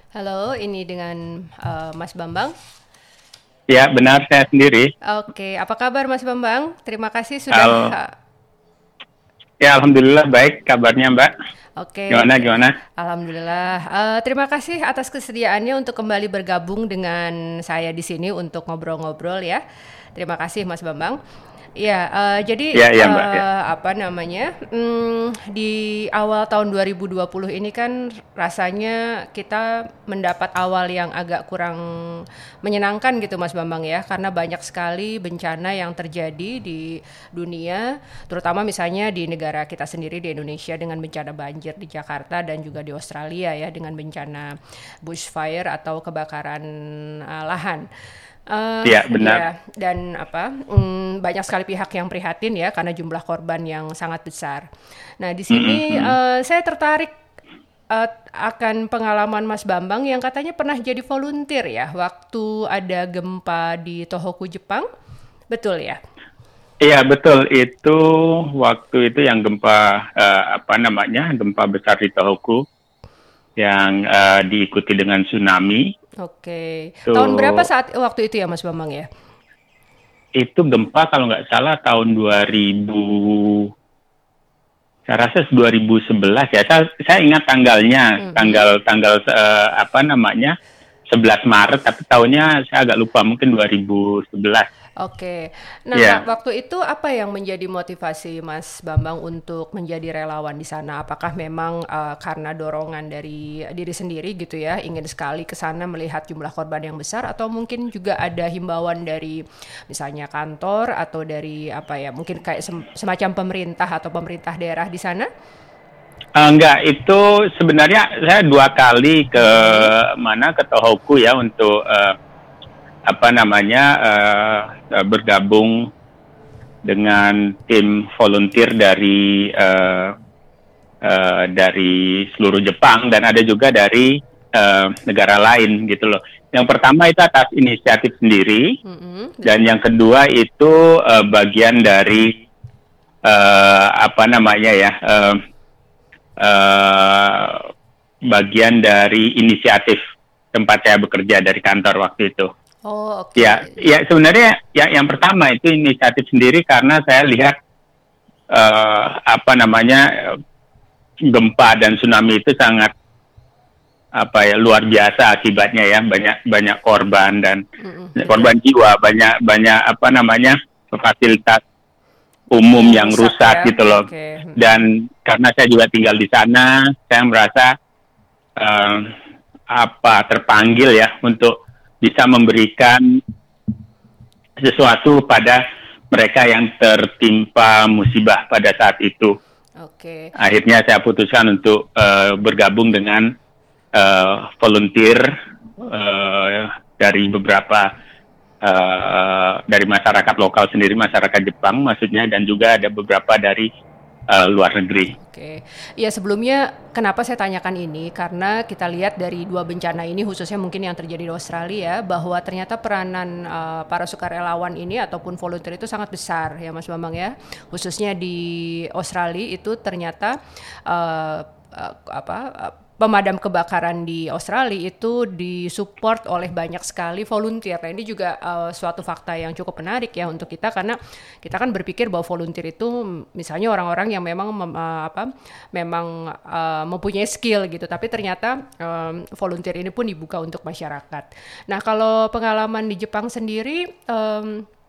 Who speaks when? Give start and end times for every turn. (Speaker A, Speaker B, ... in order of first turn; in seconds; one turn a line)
Speaker A: 0.1-2.5
Speaker B: 3.7-4.9
Speaker A: 5.0-8.1
Speaker B: 7.5-7.9
Speaker B: 9.6-11.3
Speaker A: 11.8-19.6
Speaker B: 12.1-12.8
Speaker A: 20.1-21.2
Speaker A: 21.8-44.5
Speaker B: 22.7-23.4
Speaker A: 45.0-47.8
Speaker A: 48.5-54.6
Speaker B: 48.8-49.5
Speaker A: 55.2-57.1
Speaker B: 55.5-56.1
Speaker A: 57.9-64.9
Speaker A: 65.5-66.0
Speaker B: 66.8-72.6
Speaker B: 73.6-75.8
Speaker A: 76.2-79.0
Speaker B: 77.1-77.7
Speaker B: 80.3-83.7
Speaker B: 85.1-90.5
Speaker A: 88.2-88.6
Speaker B: 91.1-94.7
Speaker A: 95.0-115.3
Speaker B: 95.9-96.2
Speaker B: 116.4-122.2
Speaker A: 119.3-119.9
Speaker B: 123.1-125.9
Speaker B: 126.8-130.1
Speaker B: 131.0-138.7
Speaker A: 138.8-139.6
Speaker B: 139.4-142.4
Speaker B: 143.2-145.4
Speaker B: 146.4-147.7
Speaker B: 148.3-150.0
Speaker B: 150.5-152.5
Speaker A: 152.8-153.8
Speaker B: 153.4-157.5
Speaker B: 158.5-160.4
Speaker B: 161.2-162.9
Speaker B: 164.2-167.6
Speaker A: 167.8-168.5
Speaker B: 168.2-171.6
Speaker B: 172.5-177.7
Speaker A: 172.7-174.7
Speaker B: 178.6-179.1
Speaker B: 179.7-183.2
Speaker B: 184.6-189.3
Speaker A: 189.8-190.3
Speaker B: 190.4-193.3
Speaker B: 193.9-197.9
Speaker B: 198.6-203.7
Speaker B: 204.3-205.1
Speaker A: 205.2-244.7